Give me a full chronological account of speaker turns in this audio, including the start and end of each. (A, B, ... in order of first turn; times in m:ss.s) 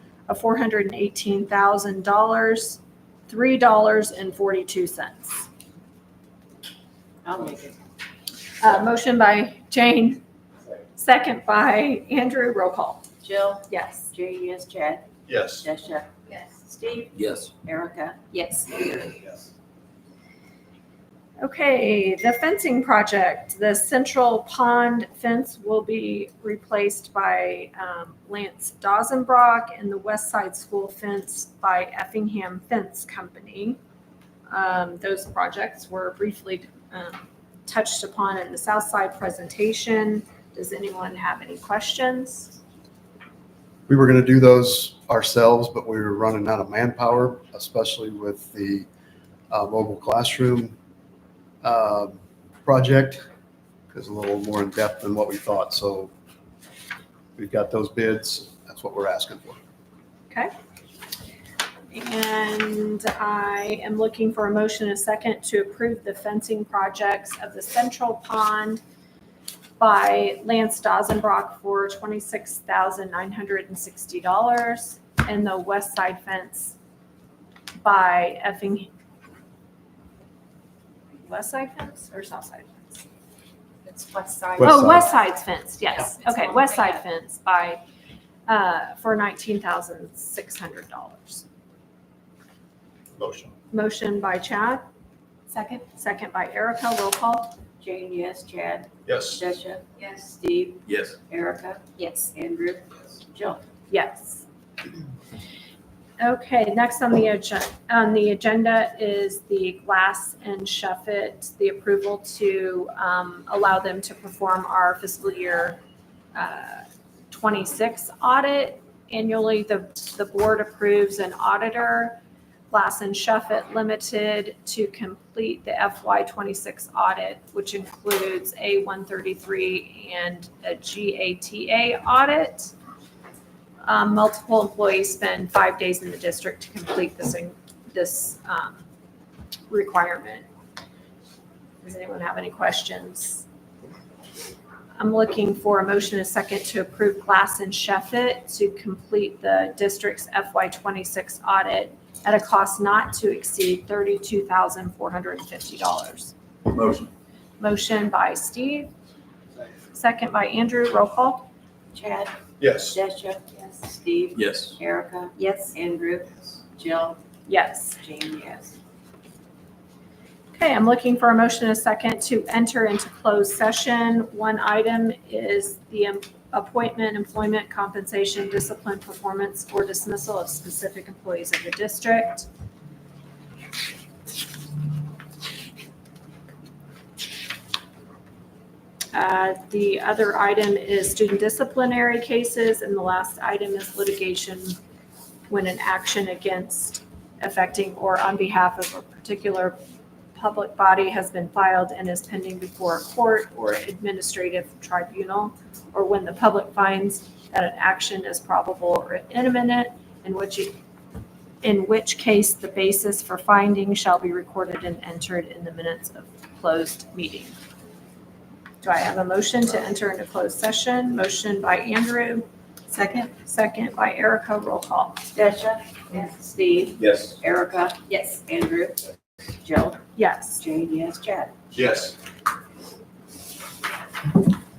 0:00.3-0:05.5 A
0:07.2-0:07.8 B
0:08.6-0:10.2 A
0:11.0-0:13.0 A
0:13.2-0:15.1 B
0:13.7-0:14.1 A
0:15.3-0:15.7 C
0:15.6-0:16.1 B
0:16.3-0:17.1 D
0:17.1-0:17.5 E
0:17.6-0:18.3 B
0:18.3-0:19.1 D
0:21.4-0:33.8 A
0:34.5-0:42.6 A
0:43.9-0:48.9 F
0:49.5-0:50.8 F
0:51.6-0:53.2 F
0:53.9-0:56.1 F
0:57.4-0:59.6 F
1:01.9-1:08.8 A
1:09.8-1:16.8 A
1:17.8-1:18.9 A
1:21.2-1:23.0 A
1:23.8-1:25.0 D
1:24.6-1:25.1 F
1:24.6-1:27.8 A
1:25.9-1:27.0 D
1:28.5-1:31.4 A
1:33.2-1:33.5 C
1:33.7-1:34.8 A
1:35.5-1:35.8 D
1:35.9-1:37.5 A
1:37.8-1:43.6 B
1:39.1-1:39.4 C
1:40.0-1:40.3 D
1:40.9-1:41.2 E
1:42.0-1:42.3 D
1:43.9-1:44.4 A
1:46.2-1:55.8 A
1:56.3-2:02.2 A
2:02.7-2:12.7 A
2:13.8-2:18.8 A
2:19.7-2:20.5 A
2:21.8-2:23.4 A
2:25.0-2:36.3 A
2:36.7-2:37.1 E
2:37.6-2:38.9 A
2:39.9-2:41.5 A
2:41.9-2:47.2 B
2:42.6-2:43.0 C
2:44.4-2:44.8 E
2:45.4-2:45.8 D
2:47.5-2:48.0 A
2:48.0-2:48.7 B
2:50.6-3:02.5 A
3:09.1-3:14.8 A
3:15.5-3:19.8 A
3:20.4-3:30.8 A
3:31.6-3:37.6 A
3:38.8-3:42.4 A
3:42.9-3:43.3 B
3:43.4-3:45.2 A
3:45.3-3:49.0 B
3:47.0-3:47.3 E
3:48.1-3:48.4 D
3:49.6-3:50.0 B
3:50.2-3:50.6 A
3:50.6-3:51.5 B
3:51.8-3:52.1 C